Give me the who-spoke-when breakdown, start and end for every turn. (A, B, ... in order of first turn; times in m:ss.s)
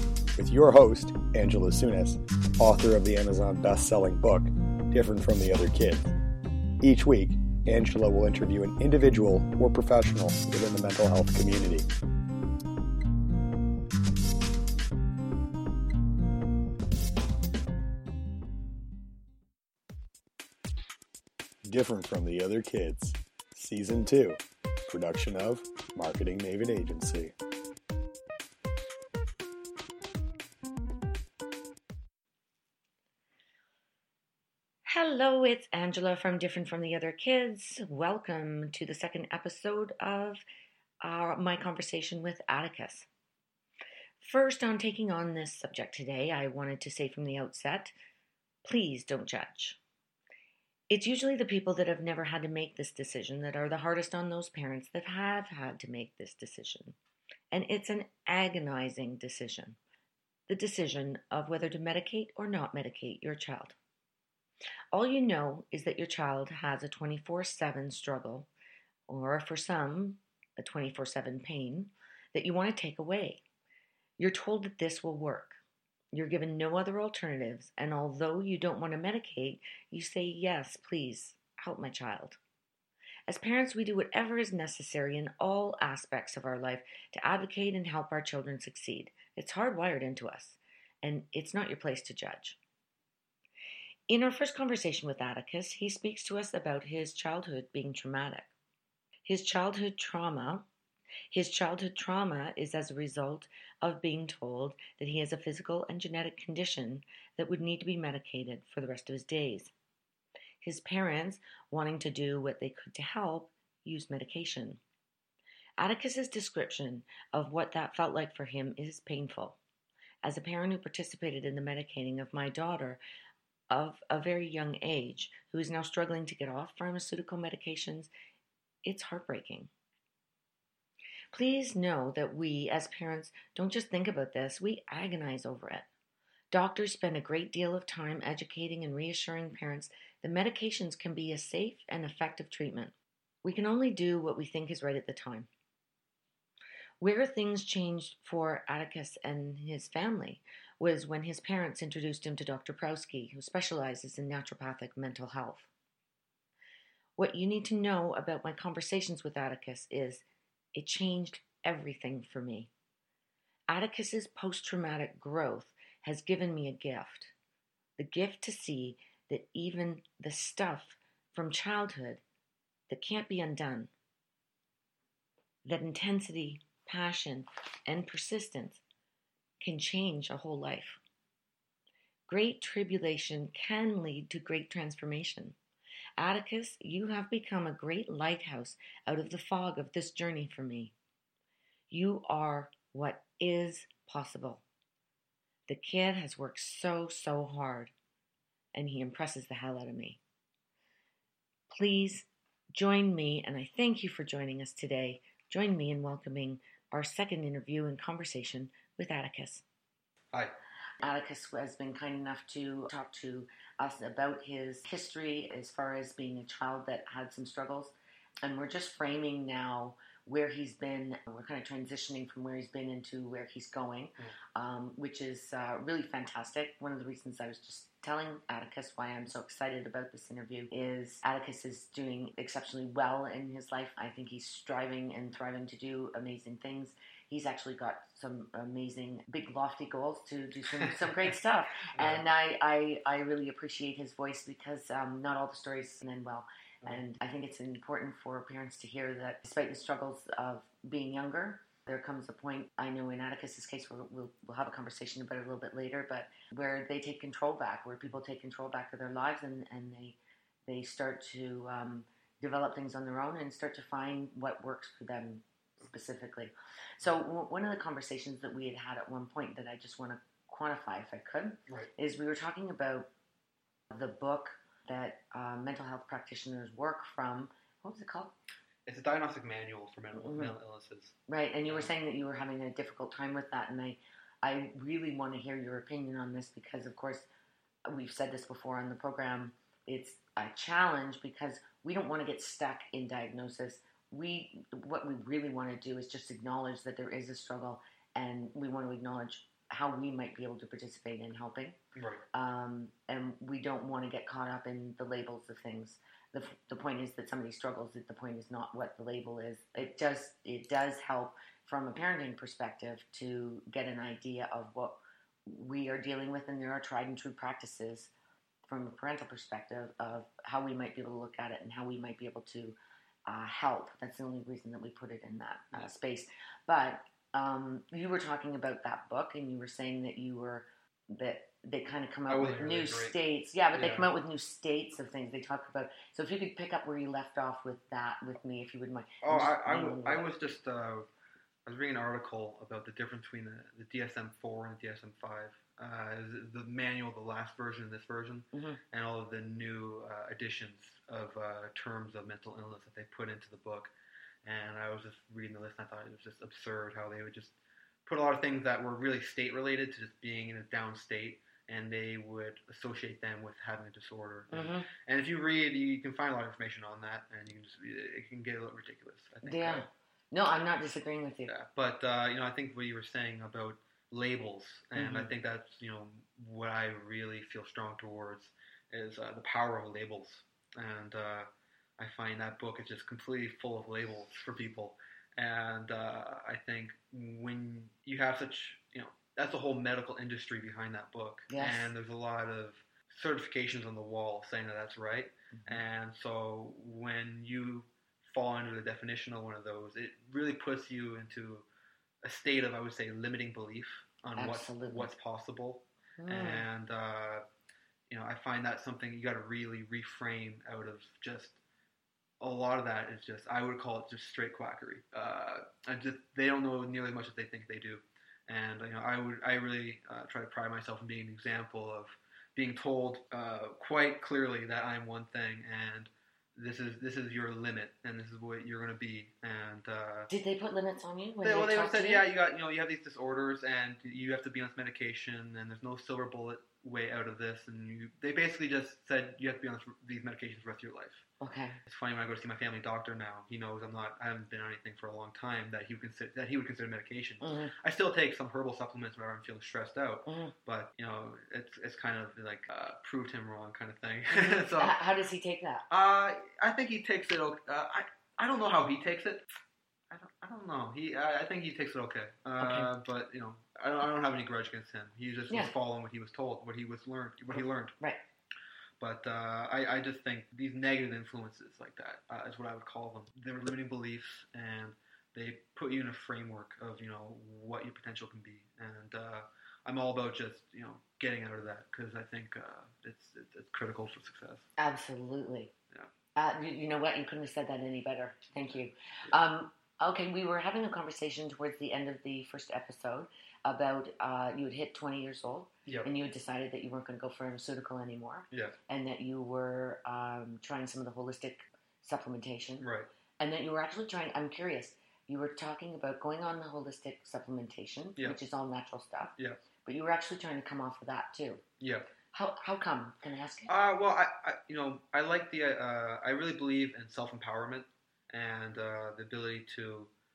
0:00.4-0:06.1 A
0:06.8-0:11.9 A
0:21.6-0:27.3 A
0:34.8-0:40.4 B
0:41.0-0:43.1 B
0:44.2-0:47.9 B
0:48.6-0:49.8 B
0:50.9-0:57.0 B
0:57.5-0:59.8 B
1:00.5-1:03.8 B
1:04.9-1:08.5 B
1:09.1-1:13.4 B
1:14.2-1:15.6 B
1:16.1-1:22.4 B
1:23.3-1:32.6 B
1:34.1-1:38.5 B
1:39.2-1:40.6 B
1:41.3-1:49.7 B
1:50.6-1:54.8 B
1:55.8-1:59.6 B
2:00.2-2:03.0 B
2:03.7-2:08.1 B
2:08.8-2:09.7 B
2:11.3-2:15.9 B
2:16.5-2:25.5 B
2:27.0-2:35.7 B
2:37.2-2:42.7 B
2:43.7-2:47.3 B
2:48.0-2:52.2 B
2:52.9-2:53.9 B
2:55.6-2:58.8 B
2:59.6-3:01.0 B
3:02.3-3:05.6 B
3:06.2-3:10.9 B
3:11.9-3:14.6 B
3:15.7-3:17.9 B
3:18.7-3:20.2 B
3:21.7-3:29.6 B
3:31.0-4:33.1 B
4:02.0-4:02.2 C
4:33.9-4:38.3 B
4:38.8-4:41.1 C
4:40.2-4:40.6 B
4:41.3-4:47.3 B
4:41.7-4:41.9 C
4:47.9-5:01.8 B
5:01.9-5:02.2 C
5:02.3-5:18.1 B
5:18.6-5:40.2 B
5:32.3-5:33.2 C
5:33.7-5:34.1 C
5:39.2-5:41.1 C
5:41.6-5:53.9 C
5:48.5-5:48.8 B
5:54.4-5:57.5 C
5:58.0-6:09.9 C
6:04.5-6:04.8 B
6:09.4-6:11.5 B
6:11.5-6:41.7 C
6:15.0-6:15.3 B
6:31.5-6:31.9 B
6:35.5-6:35.8 B
6:42.2-6:47.4 C
6:44.4-6:45.1 B
6:46.2-6:46.7 B
6:48.1-6:51.6 C
6:52.4-7:10.3 C
7:10.3-7:12.3 B
7:11.4-7:21.2 C
7:21.4-7:21.8 B
7:21.8-7:35.0 C
7:27.4-7:27.7 B
7:30.2-7:30.5 B
7:34.7-7:35.8 B
7:35.9-7:39.4 C
7:40.1-7:47.9 C
7:42.6-7:42.9 B
7:47.6-7:48.2 B
7:49.0-8:04.6 C
8:04.8-8:05.7 B
8:06.3-8:22.9 B
8:18.5-8:18.8 C
8:22.8-8:23.1 C
8:23.4-8:31.6 B
8:31.8-8:32.1 C
8:32.3-8:33.7 B
8:33.7-8:40.1 C